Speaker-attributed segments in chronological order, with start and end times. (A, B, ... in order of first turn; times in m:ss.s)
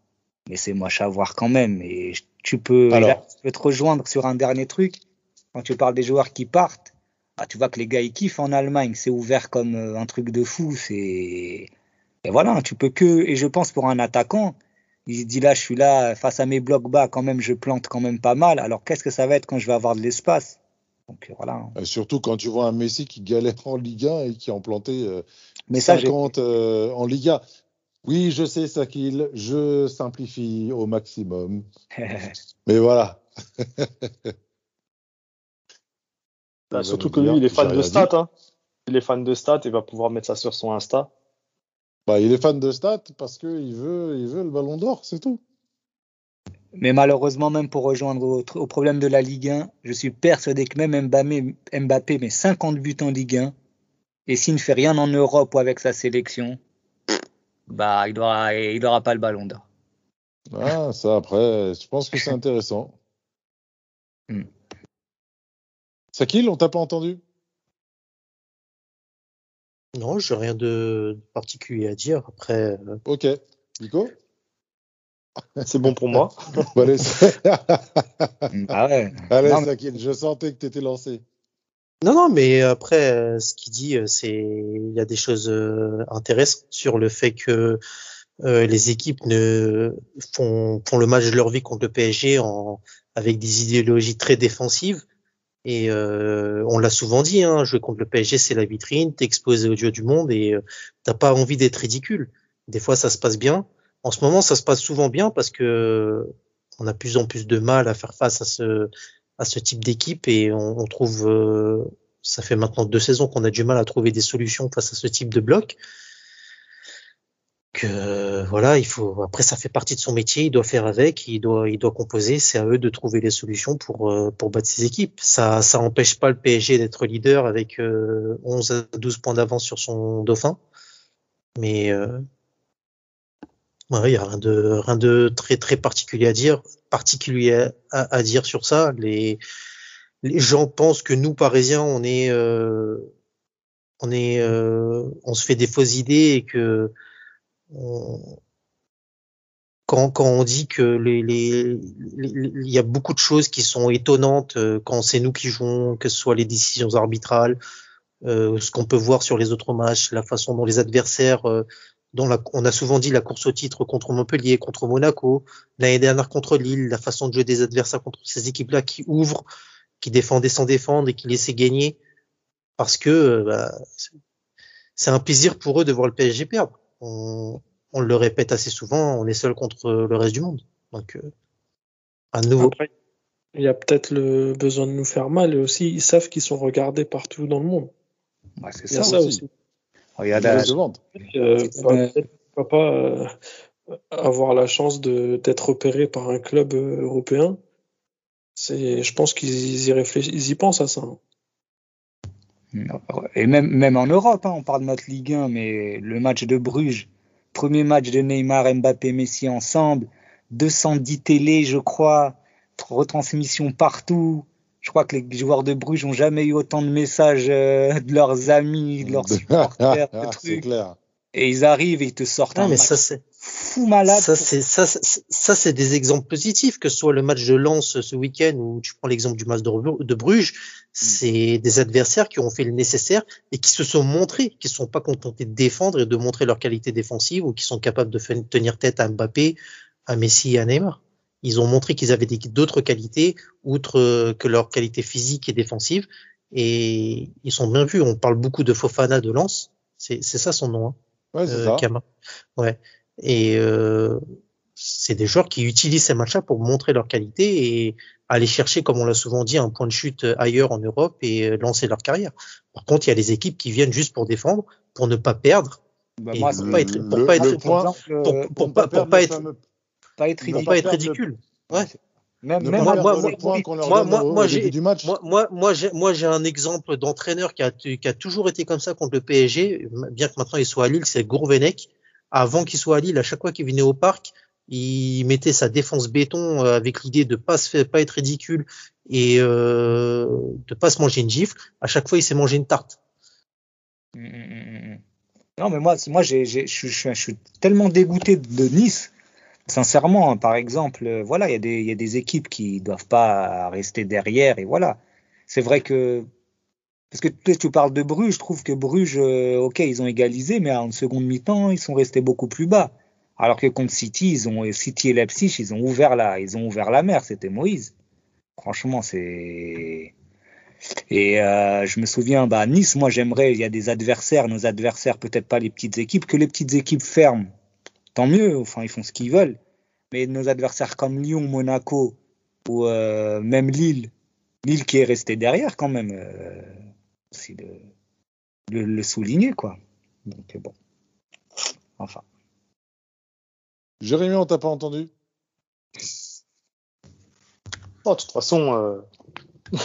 0:00.5-0:05.0 A
0:02.9-0:03.2 B
0:05.5-0:11.7 A
0:12.2-0:20.6 A
0:21.1-0:21.7 A
0:21.8-0:27.4 B
0:25.7-0:26.3 A
0:28.0-0:31.6 B
0:32.0-0:32.3 A
0:32.6-0:34.3 B
0:36.7-0:38.1 B
0:36.7-0:38.3 C
0:38.9-0:41.1 C
0:42.1-0:45.4 B
0:46.8-0:53.5 A
0:54.3-0:56.6 A
0:57.7-0:59.6 A
1:00.5-1:03.0 B
1:06.1-1:07.2 B
1:09.9-1:13.0 D
1:13.0-1:14.1 B
1:15.6-1:16.7 C
1:16.7-1:18.5 B
1:18.5-1:19.7 A
1:19.3-1:21.2 B
1:22.0-1:27.8 D
1:28.4-1:35.0 D
1:35.6-1:55.8 D
1:57.7-2:10.6 D
2:11.6-2:12.2 D
2:13.9-2:19.4 D
2:20.2-2:23.1 D
2:24.0-2:26.9 D
2:27.7-2:28.4 D
2:29.9-2:37.6 D
2:38.2-2:49.4 D
2:50.0-2:52.0 D
2:52.8-2:54.0 D
2:55.0-3:01.3 D
3:02.3-3:02.7 D
3:02.6-3:02.9 E
3:03.6-3:07.9 E
3:08.6-3:09.2 A
3:08.9-3:09.5 E
3:08.9-3:09.4 B
3:10.2-3:10.7 A
3:10.3-3:11.0 B
3:11.1-3:13.3 E
3:11.8-3:12.2 A
3:14.1-3:17.6 E
3:18.6-3:21.2 E
3:22.7-3:40.6 A
3:39.0-3:41.0 B
3:41.3-3:44.5 A
3:42.5-3:43.2 D
3:44.1-4:11.0 D
4:11.3-4:11.8 B
4:11.5-4:12.0 D
4:12.6-4:14.2 D
4:14.8-4:25.8 D
4:26.2-4:27.9 B
4:26.3-4:28.5 A
4:26.3-4:29.4 D
4:28.5-4:29.6 B
4:30.2-4:31.0 A
4:30.4-4:31.2 B
4:30.6-4:31.9 D
4:31.7-4:34.2 A
4:32.6-4:35.1 B
4:32.8-4:53.0 D
4:54.2-4:55.0 A
4:55.6-4:59.1 A
4:59.7-5:05.0 A
5:05.5-5:06.3 A
5:07.1-5:17.9 A
5:18.6-5:20.1 A
5:21.1-5:27.5 A
5:28.1-5:29.6 A
5:30.1-5:34.1 A
5:34.6-5:36.8 A
5:37.3-5:37.8 A
5:38.7-5:40.7 A
5:44.0-5:45.1 B
5:48.0-5:49.0 C